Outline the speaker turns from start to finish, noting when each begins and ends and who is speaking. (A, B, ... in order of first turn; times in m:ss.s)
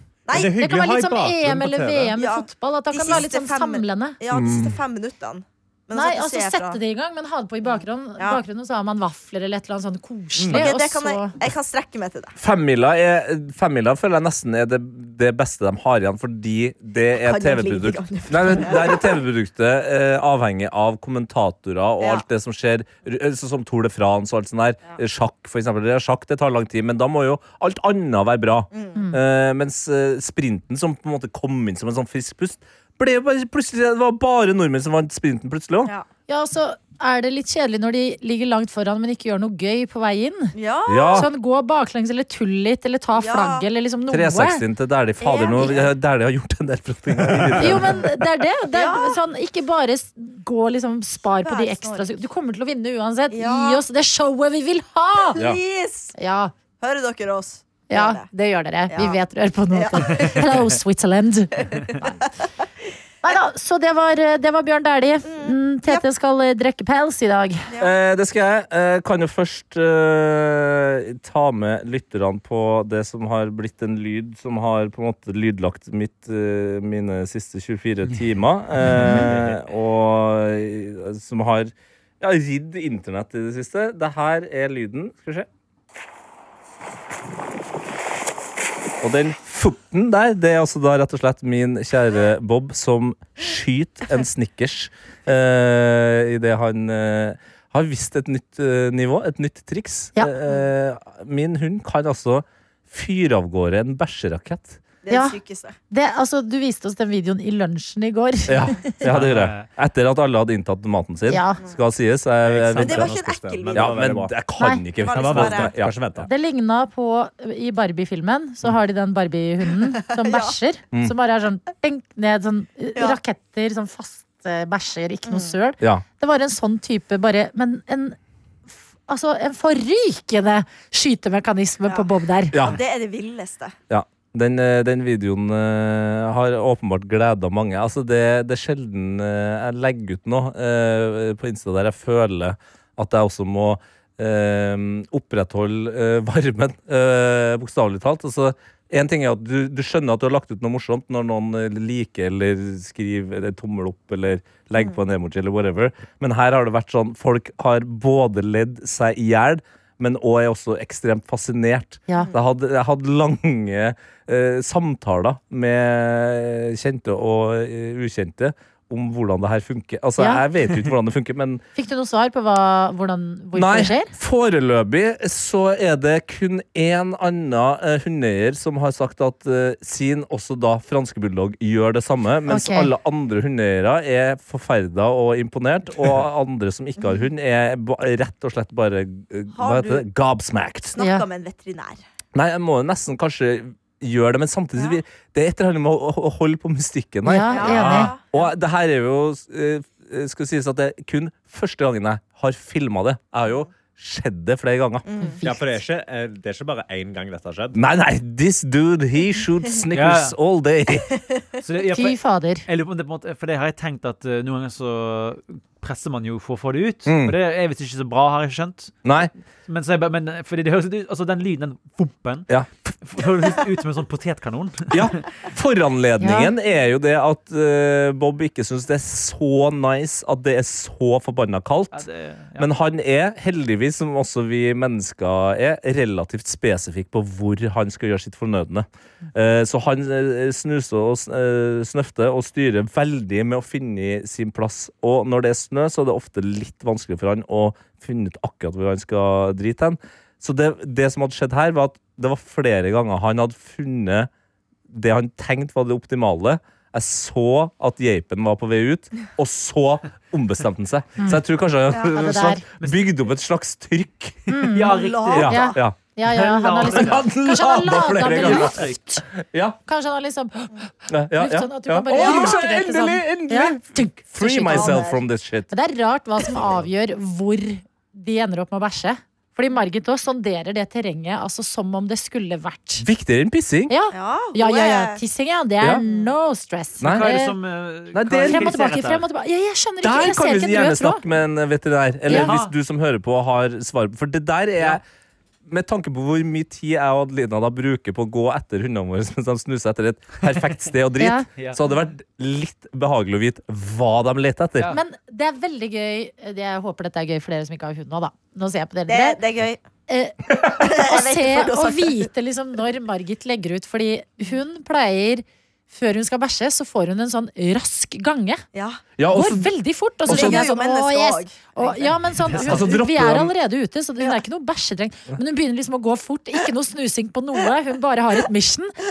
0:00.3-0:00.5 A
0:00.3-0:02.2 B
0:00.4-0:04.2 C
0:02.2-0:06.8 A
0:04.3-0:04.8 D
0:05.9-0:11.3 C
0:07.6-0:08.4 A
0:10.4-0:10.7 B
0:10.5-0:12.3 A
0:12.4-0:35.9 D
0:17.1-0:19.2 A
0:22.0-0:22.2 A
0:28.7-0:29.0 A
0:28.9-0:29.2 C
0:36.3-0:40.5 C
0:40.5-0:41.3 A
0:40.9-0:41.3 D
0:41.1-0:44.6 C
0:43.2-0:43.7 A
0:44.1-0:48.1 D
0:45.2-0:45.9 A
0:47.6-0:55.4 C
0:48.7-0:49.2 A
0:51.3-0:52.1 A
0:53.3-0:53.8 A
0:55.3-0:56.1 A
0:56.2-0:56.5 C
0:56.8-0:58.3 A
0:57.9-1:01.7 C
0:58.9-0:59.2 A
0:59.7-1:00.7 A
1:01.6-1:02.2 A
1:03.2-1:07.7 C
1:05.2-1:06.0 A
1:07.8-1:25.5 D
1:18.9-1:19.5 E
1:29.0-1:44.8 D
1:45.0-1:45.8 A
1:45.1-1:45.4 C
1:45.9-1:48.9 C
1:48.5-1:53.2 D
1:49.0-1:49.7 E
1:51.3-1:51.6 C
1:52.4-1:54.4 B
1:52.8-1:54.1 A
1:53.7-1:56.2 D
1:54.6-1:54.8 C
1:55.0-1:55.7 A
1:55.0-1:56.3 B
1:56.2-2:08.2 C
2:00.1-2:00.6 A
2:05.3-2:05.5 A
2:09.1-2:12.6 C
2:11.8-2:13.8 A
2:12.5-2:12.8 D
2:13.9-2:51.6 D
2:42.1-2:42.4 A
2:50.2-2:50.4 C
2:51.8-2:54.1 C
2:53.5-3:11.0 D
3:02.4-3:02.9 C
3:07.0-3:07.3 A
3:09.5-3:10.0 A
3:10.9-3:12.0 A
3:11.0-3:11.2 C
3:12.3-3:25.0 D
3:17.2-3:18.1 C
3:17.5-3:18.5 A
3:25.0-3:25.4 A
3:25.2-3:25.6 C
3:25.4-3:27.8 B
3:27.7-3:31.1 D
3:29.9-3:30.4 E
3:31.6-3:39.0 E
3:31.9-3:32.6 C
3:37.0-3:37.4 D
3:39.0-3:39.3 D
3:39.6-3:42.5 E
3:43.0-3:45.4 E
3:44.9-4:14.3 D
3:46.2-3:46.5 C
3:51.9-3:52.7 E
4:14.9-4:24.6 D
4:21.9-4:22.2 A
4:22.1-4:22.6 C
4:22.8-4:23.0 E
4:24.5-4:29.2 C
4:24.7-4:25.5 E
4:24.8-4:25.8 A
4:25.3-4:26.0 D
4:26.2-4:27.2 E
4:26.8-4:29.8 D
4:28.3-4:29.0 E
4:29.9-4:30.7 C
4:31.1-4:35.7 D
4:31.3-4:35.1 C
4:32.1-4:32.6 A
4:34.6-4:35.2 A
4:35.7-4:43.1 C
4:43.0-4:43.9 D
4:43.9-4:47.5 C
4:44.1-4:45.2 A
4:46.0-4:46.3 A
4:47.0-4:47.3 D
4:47.0-4:49.2 E
4:48.1-4:48.7 D
4:48.4-4:51.2 C
4:50.0-4:55.0 D
4:52.2-4:52.7 E
4:52.3-4:52.5 C
4:55.7-5:04.9 D
5:01.2-5:01.5 C
5:04.9-5:09.4 C
5:09.1-5:09.8 A
5:10.1-5:18.6 C
5:10.6-5:12.3 A
5:18.7-5:19.0 A
5:19.2-5:19.7 D
5:19.3-5:28.9 C
5:20.2-5:20.6 D
5:20.3-5:22.2 A
5:22.5-5:22.9 E
5:22.5-5:23.5 D